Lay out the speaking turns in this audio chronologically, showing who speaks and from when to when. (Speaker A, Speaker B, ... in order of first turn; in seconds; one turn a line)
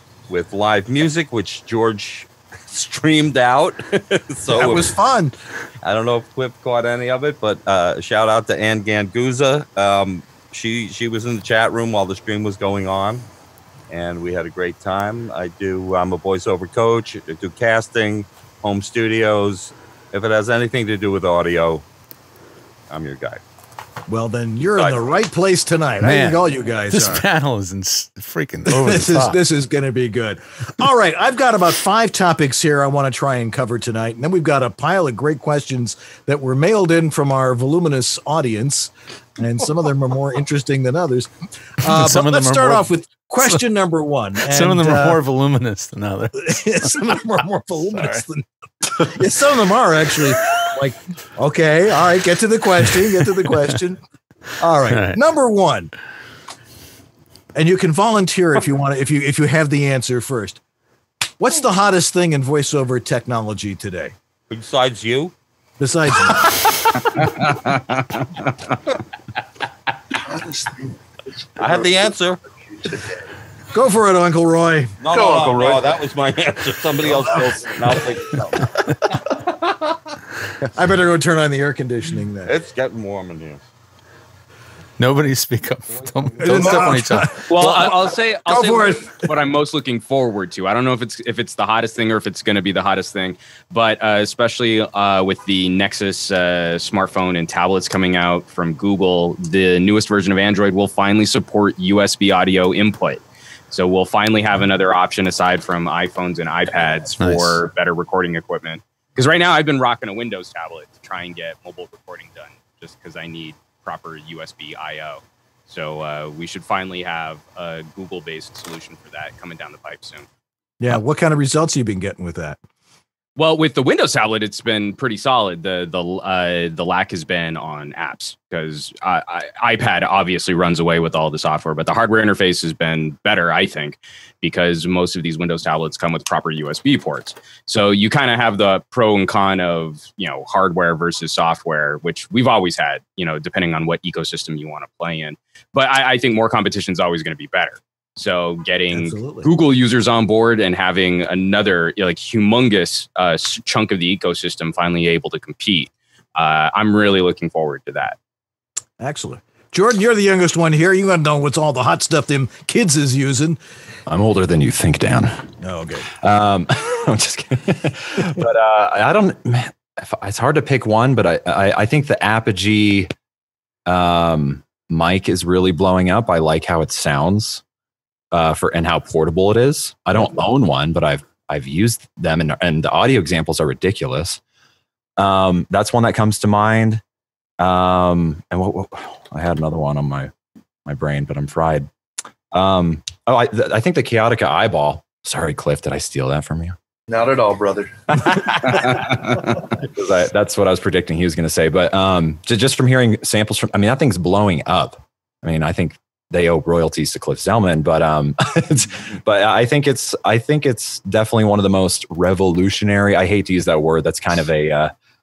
Speaker A: 0.3-4.9
Speaker B: 4.5-5.3
Speaker A: 5.8-13.2
Speaker A: 13.9-21.8
Speaker A: 22.9-23.4
Speaker B: 24.1-27.2
Speaker A: 24.7-25.1
Speaker C: 26.0-29.4
Speaker B: 28.7-45.2
Speaker C: 41.8-42.9
Speaker C: 44.5-47.1
Speaker B: 46.4-48.5
Speaker C: 48.0-48.2
Speaker B: 49.0-54.0
Speaker B: 54.6-55.9
Speaker C: 54.9-55.2
Speaker B: 57.5-60.6
Speaker B: 61.4-64.1
Speaker A: 64.5-65.3
Speaker B: 65.8-66.5
Speaker A: 67.2-68.2
Speaker D: 70.3-71.0
Speaker A: 71.6-72.4
Speaker D: 71.6-72.1
Speaker D: 72.7-73.2
Speaker B: 73.7-75.4
Speaker A: 75.0-78.7
Speaker D: 75.2-75.8
Speaker B: 77.1-77.8
Speaker B: 80.7-82.6
Speaker A: 82.5-83.6
Speaker C: 85.0-87.3
Speaker B: 86.4-89.1
Speaker E: 87.5-120.3
Speaker C: 107.2-107.6
Speaker B: 120.8-122.6
Speaker E: 123.4-158.2
Speaker B: 148.9-149.5
Speaker B: 159.0-163.6
Speaker F: 164.1-165.4
Speaker B: 165.6-166.1
Speaker F: 166.2-173.1
Speaker F: 173.9-177.6
Speaker F: 178.3-184.4
Speaker F: 185.2-187.0
Speaker F: 187.6-190.3
Speaker F: 190.8-191.9
Speaker F: 192.5-196.8
Speaker D: 197.1-198.2
Speaker F: 198.5-214.9